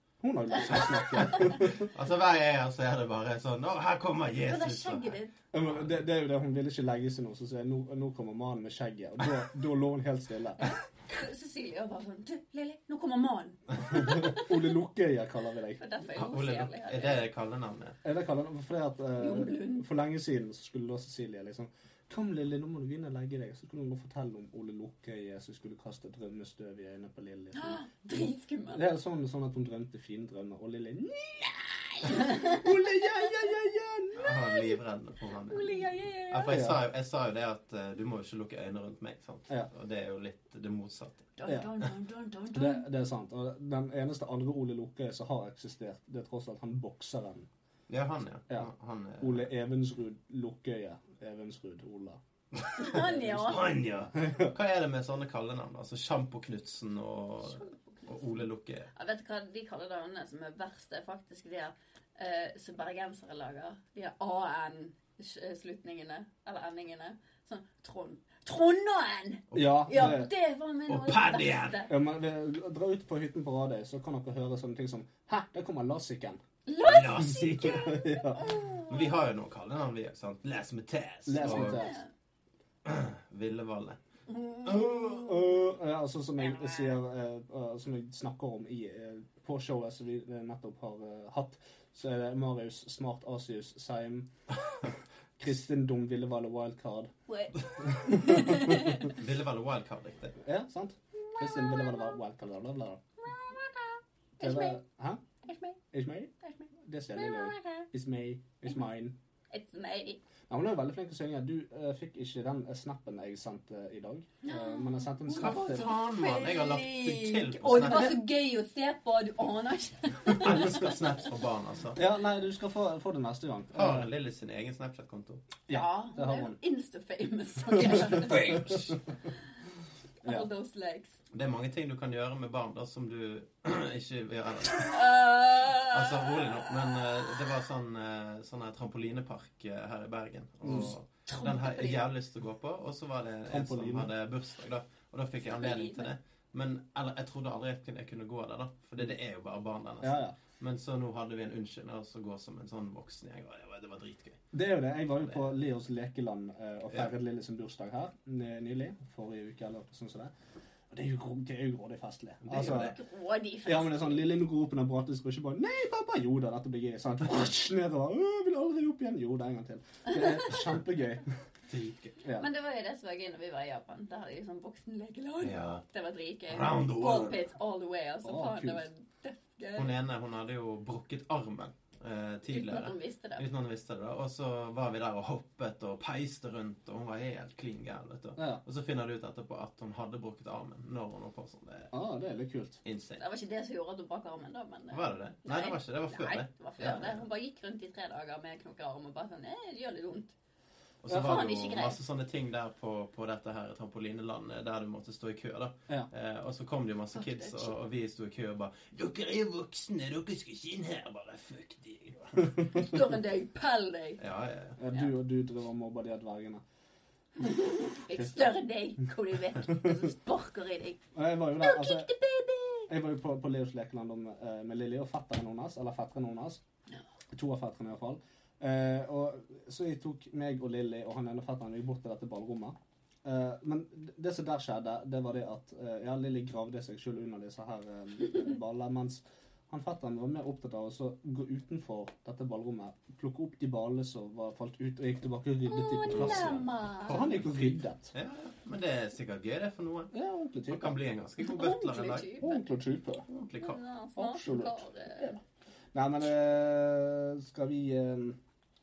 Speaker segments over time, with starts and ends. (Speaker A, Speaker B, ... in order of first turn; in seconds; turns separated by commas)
Speaker A: 0.2-1.9, Speaker B: 0.6-5.9, Speaker C: 0.8-1.5, Speaker C: 4.4-5.3, Speaker A: 5.5-10.7, Speaker C: 10.6-14.5, Speaker A: 13.9-15.8, Speaker C: 15.8-17.3, Speaker B: 16.1-18.0, Speaker A: 18.0-34.3, Speaker C: 19.2-19.9, Speaker C: 27.5-28.9, Speaker C: 32.0-32.7, Speaker C: 34.1-34.7, Speaker B: 34.1-41.3, Speaker C: 35.5-36.6, Speaker A: 36.5-36.8, Speaker C: 41.4-42.8, Speaker A: 42.5-47.5, Speaker B: 47.9-49.5, Speaker A: 48.5-52.2, Speaker B: 52.6-58.9, Speaker C: 52.8-53.6, Speaker A: 52.9-53.6, Speaker A: 54.1-54.5, Speaker C: 57.4-58.2, Speaker C: 58.9-71.9, Speaker B: 69.5-70.2, Speaker A: 69.5-70.3, Speaker B: 70.9-71.8, Speaker A: 71.9-76.4, Speaker C: 76.7-79.1, Speaker B: 76.8-78.0, Speaker A: 77.2-78.6, Speaker B: 78.9-81.9, Speaker A: 81.2-82.0, Speaker C: 81.4-82.1, Speaker B: 82.8-84.0, Speaker C: 84.3-85.4, Speaker A: 84.6-94.3, Speaker A: 95.4-97.1, Speaker C: 97.3-99.2, Speaker A: 97.9-99.0, Speaker B: 98.9-100.4, Speaker A: 100.4-103.0, Speaker C: 101.1-102.2, Speaker C: 103.2-104.8, Speaker A: 104.4-105.2, Speaker C: 105.4-105.8, Speaker A: 105.9-109.2, Speaker C: 106.4-107.9, Speaker C: 109.5-110.2, Speaker A: 110.5-115.9, Speaker C: 114.4-121.1, Speaker B: 115.3-118.2, Speaker B: 120.4-122.0, Speaker A: 122.0-124.1, Speaker B: 123.7-125.5, Speaker A: 125.7-126.6, Speaker C: 125.7-128.7, Speaker B: 127.8-129.0, Speaker A: 128.1-128.9, Speaker A: 130.2-130.5, Speaker C: 130.2-131.2, Speaker B: 131.3-135.2, Speaker C: 134.8-136.5, Speaker B: 135.7-154.4, Speaker A: 140.6-140.9, Speaker C: 141.3-142.0, Speaker A: 143.5-144.1, Speaker C: 145.4-146.1, Speaker A: 150.0-150.4, Speaker A: 154.5-160.3, Speaker A: 160.9-162.9, Speaker B: 162.5-162.9, Speaker C: 162.5-164.3, Speaker A: 163.6-171.3, Speaker B: 171.7-172.2, Speaker C: 172.3-179.9, Speaker B: 175.4-175.8, Speaker B: 176.5-177.4, Speaker A: 178.2-178.8, Speaker B: 179.8-191.9, Speaker C: 182.5-183.4, Speaker A: 188.4-188.6, Speaker A: 191.9-192.8, Speaker B: 192.8-193.2, Speaker C: 193.2-200.3, Speaker B: 194.9-197.2, Speaker B: 201.0-212.5, Speaker C: 201.1-202.0, Speaker C: 207.1-207.8, Speaker A: 212.4-212.7, Speaker C: 212.6-214.2, Speaker B: 214.2-214.8, Speaker A: 214.8-216.6, Speaker C: 217.4-221.0, Speaker A: 218.1-218.5, Speaker A: 221.1-222.1, Speaker C: 221.6-222.9, Speaker A: 222.9-226.6, Speaker A: 227.3-248.1, Speaker C: 245.6-247.3, Speaker B: 246.1-250.1, Speaker A: 250.1-251.0, Speaker B: 250.7-252.3, Speaker C: 251.4-252.6, Speaker A: 252.4-253.2, Speaker B: 253.3-253.8, Speaker C: 253.6-255.3, Speaker A: 254.2-255.4, Speaker A: 255.9-258.4